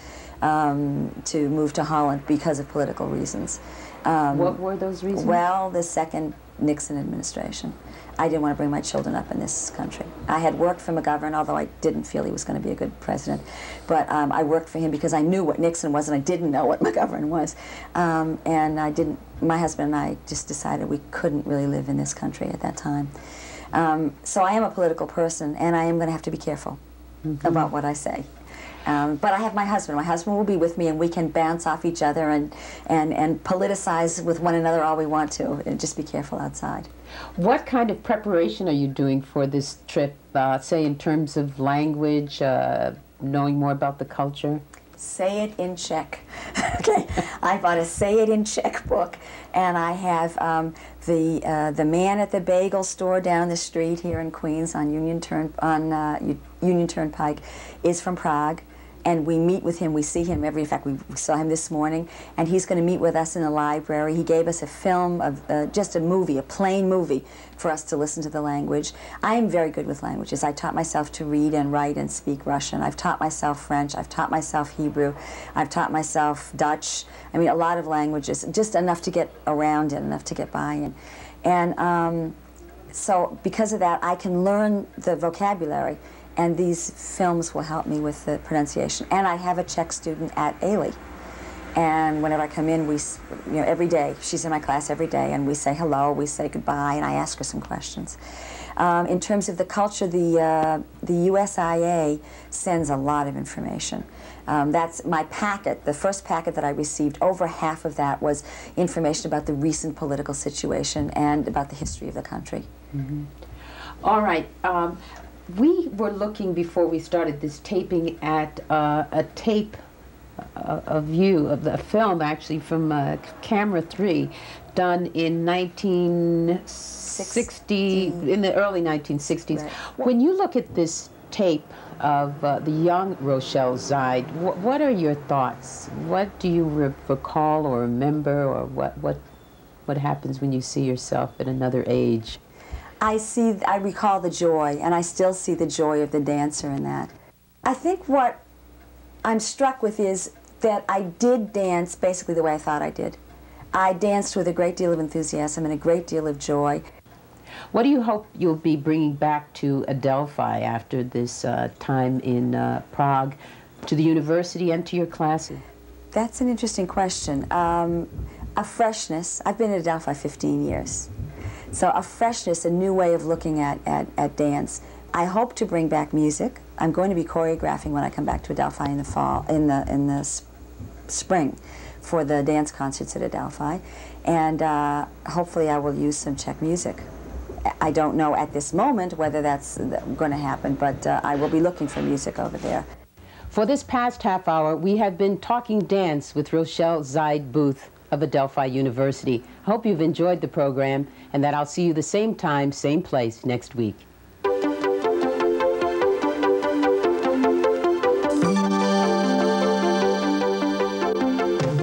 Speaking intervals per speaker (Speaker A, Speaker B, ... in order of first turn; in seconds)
Speaker A: 0.4-4.6, 5.1-23.1, 23.7-26.8, 27.4-28.3, 28.8-36.9, 45.0-82.3, 82.9-91.0, 91.8-98.2, 98.8-112.7, 127.1-128.2, 129.5-129.9, 143.0-147.1, 147.6-148.4, 149.2-153.2, 153.7-156.8, 166.1-171.1, 171.7-180.4, 181.1-187.1, 187.6-192.9
Speaker B: 4.3-5.4, 37.4-44.6, 112.9-113.3, 114.0-119.8, 120.4-139.2, 139.9-142.4, 157.7-165.6, 193.5-204.1